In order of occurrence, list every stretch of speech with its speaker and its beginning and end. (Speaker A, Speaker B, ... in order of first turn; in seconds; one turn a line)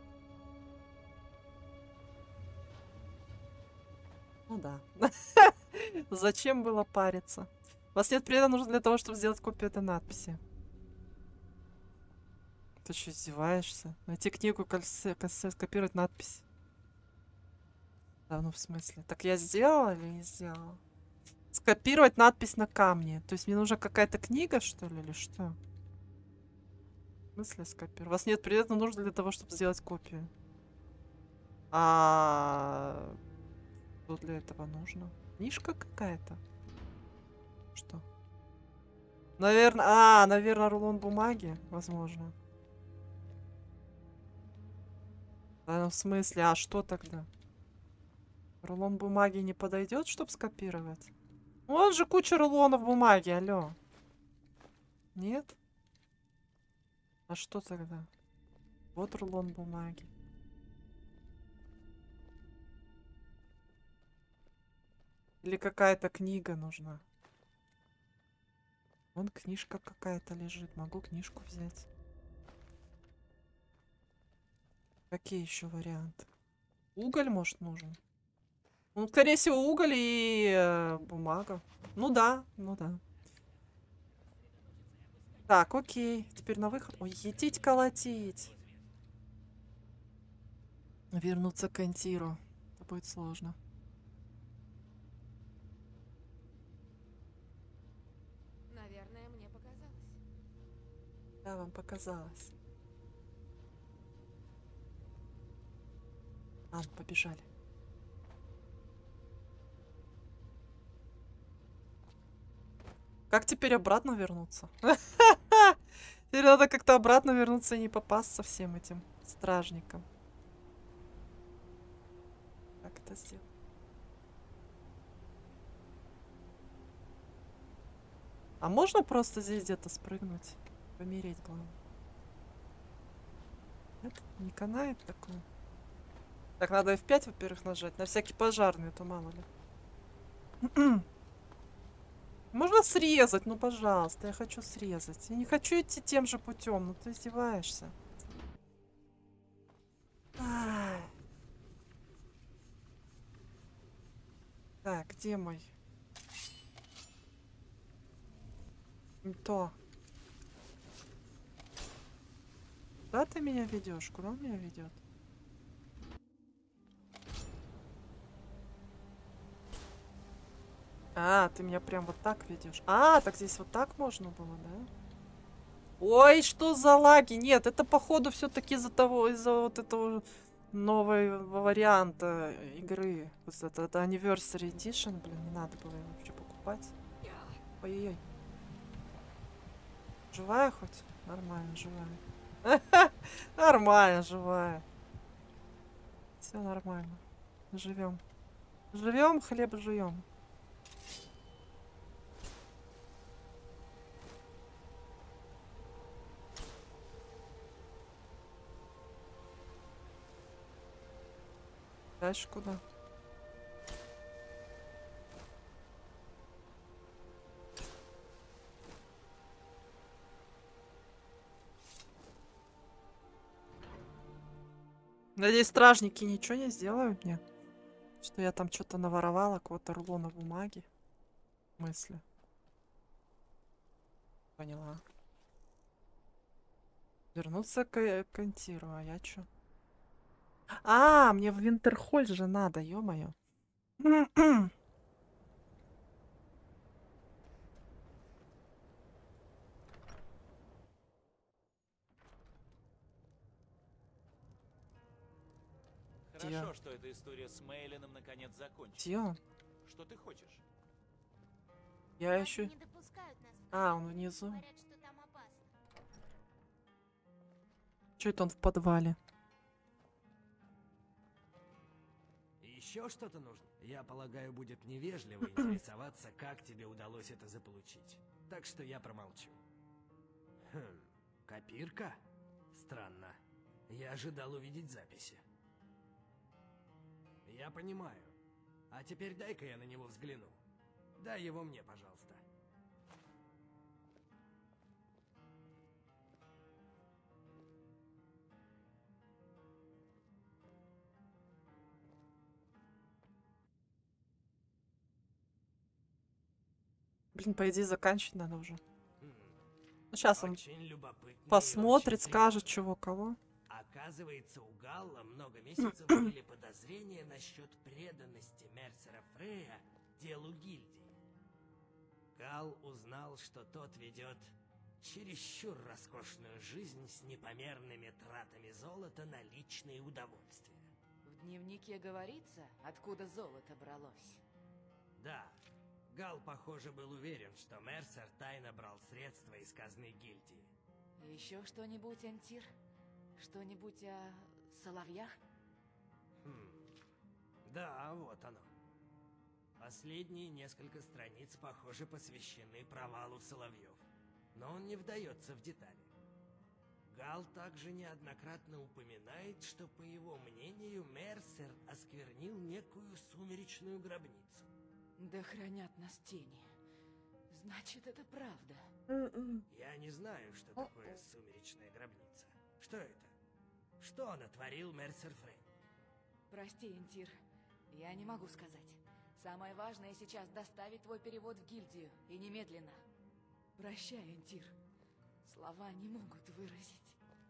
Speaker A: 4.5-10.4
Speaker A: 12.8-16.4
Speaker A: 18.3-20.8
Speaker A: 21.5-25.6
Speaker A: 27.3-30.3
Speaker A: 31.7-33.2
Speaker A: 34.1-36.4
Speaker A: 37.7-38.0
Speaker A: 39.4-42.3
Speaker A: 45.6-47.3
Speaker A: 48.6-51.1
Speaker A: 51.7-53.8
Speaker A: 55.1-55.5
Speaker A: 57.3-58.1
Speaker A: 58.9-60.1
Speaker A: 65.4-67.0
Speaker A: 69.1-71.8
Speaker A: 75.1-76.3
Speaker A: 77.0-78.0
Speaker A: 78.9-83.0
Speaker A: 85.5-88.5
Speaker A: 91.1-93.5
Speaker A: 101.4-102.5
Speaker A: 106.7-107.5
Speaker A: 113.3-115.8
Speaker A: 116.3-120.0
Speaker A: 122.8-123.4
Speaker A: 128.6-131.8
Speaker A: 134.0-135.4
Speaker A: 136.6-139.4
Speaker A: 140.6-141.0
Speaker A: 142.5-147.9
Speaker A: 150.4-151.1
Speaker A: 154.8-155.7
Speaker A: 159.2-159.7
Speaker A: 163.1-165.0
Speaker A: 171.2-174.9
Speaker A: 176.0-186.9
Speaker A: 187.8-188.2
Speaker A: 190.3-194.8
Speaker A: 196.4-198.2
Speaker A: 198.9-200.2
Speaker A: 212.2-212.8
Speaker A: 225.3-227.4
Speaker A: 228.2-230.9
Speaker A: 231.8-232.2
Speaker A: 234.6-235.0
Speaker A: 237.3-239.5
Speaker A: 240.8-243.3
Speaker A: 244.0-244.7
Speaker B: 256.3-259.1
Speaker A: 256.4-256.7
Speaker A: 259.0-259.4
Speaker B: 259.8-260.6
Speaker A: 262.2-262.7
Speaker C: 262.2-265.7
Speaker A: 263.7-264.6
Speaker A: 268.2-269.2
Speaker D: 272.6-279.6
Speaker D: 280.7-282.2
Speaker D: 282.7-285.4
Speaker D: 287.4-288.3
Speaker D: 288.9-290.6
Speaker D: 291.2-292.4
Speaker A: 307.3-308.8
Speaker D: 309.2-309.6
Speaker A: 310.1-310.6
Speaker D: 310.3-312.8
Speaker A: 311.5-313.4
Speaker D: 313.7-321.1
Speaker D: 322.3-330.9
Speaker E: 331.2-334.4
Speaker D: 335.2-335.6
Speaker D: 336.1-340.7
Speaker E: 341.2-342.7
Speaker E: 343.4-345.4
Speaker D: 346.4-347.0
Speaker D: 347.6-348.7
Speaker D: 349.8-354.0
Speaker D: 354.5-356.1
Speaker D: 357.1-364.7
Speaker E: 365.2-366.6
Speaker E: 367.5-368.8
Speaker D: 369.7-373.3
Speaker D: 374.0-375.6
Speaker E: 376.5-377.3
Speaker E: 377.9-383.0
Speaker E: 383.8-384.7
Speaker E: 385.4-387.2